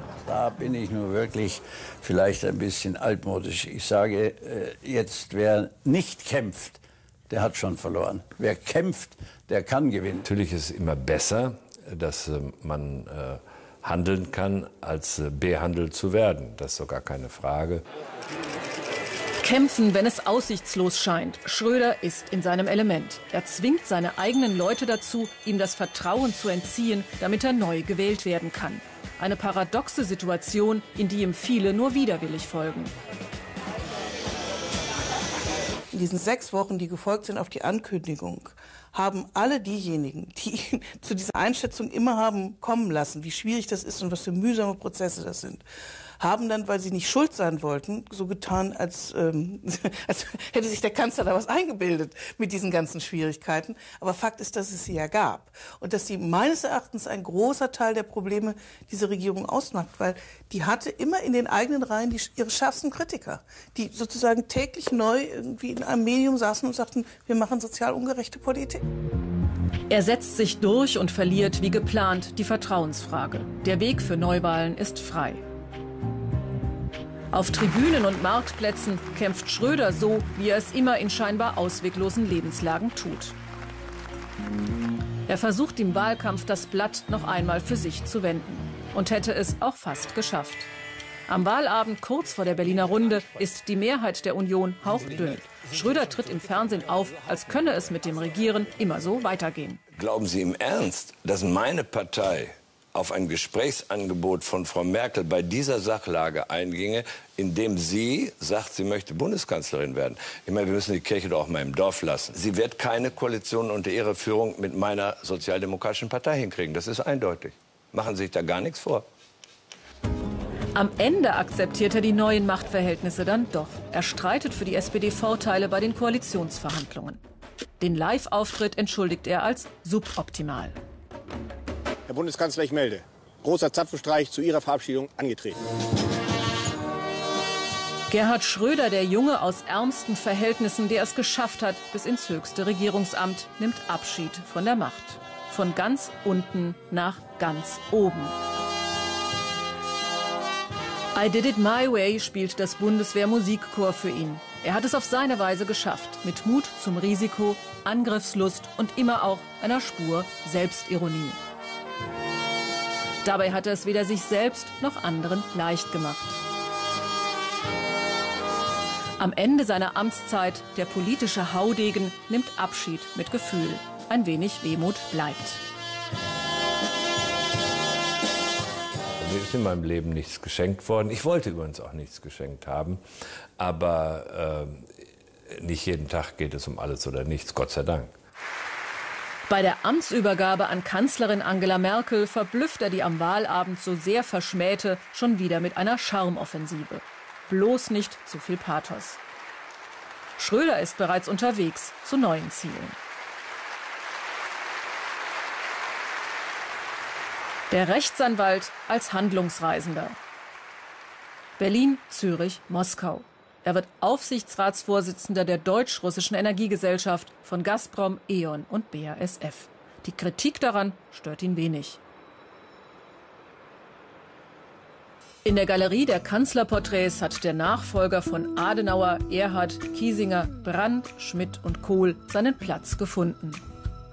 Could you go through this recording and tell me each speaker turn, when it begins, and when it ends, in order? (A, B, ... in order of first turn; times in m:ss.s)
0:00.3-0:10.3 A
0:10.2-0:17.8 B
0:19.4-0:32.9 C
0:35.9-0:45.6 D
0:46.2-1:08.8 D
1:09.9-1:15.4 C
1:17.3-1:23.4 C
1:25.3-1:30.7 C
1:31.3-1:39.8 C
1:40.6-1:42.5 B
1:43.0-1:43.8 E
1:44.9-1:47.9 B
1:48.7-1:49.0 B
1:52.3-1:59.0 E
2:00.7-2:07.2 C
2:07.8-2:10.8 C
2:12.1-2:15.6 F
2:18.1-2:28.4 C
2:31.2-2:41.4 C
2:43.2-2:46.4 C
2:49.2-2:55.6 C
2:59.2-3:03.0 B
3:03.6-3:04.9 B
3:05.5-3:08.1 B
3:09.5-3:19.2 C
3:20.4-3:23.0 C
3:27.7-3:30.2 C
3:31.6-3:42.0 C
3:45.4-3:53.6 C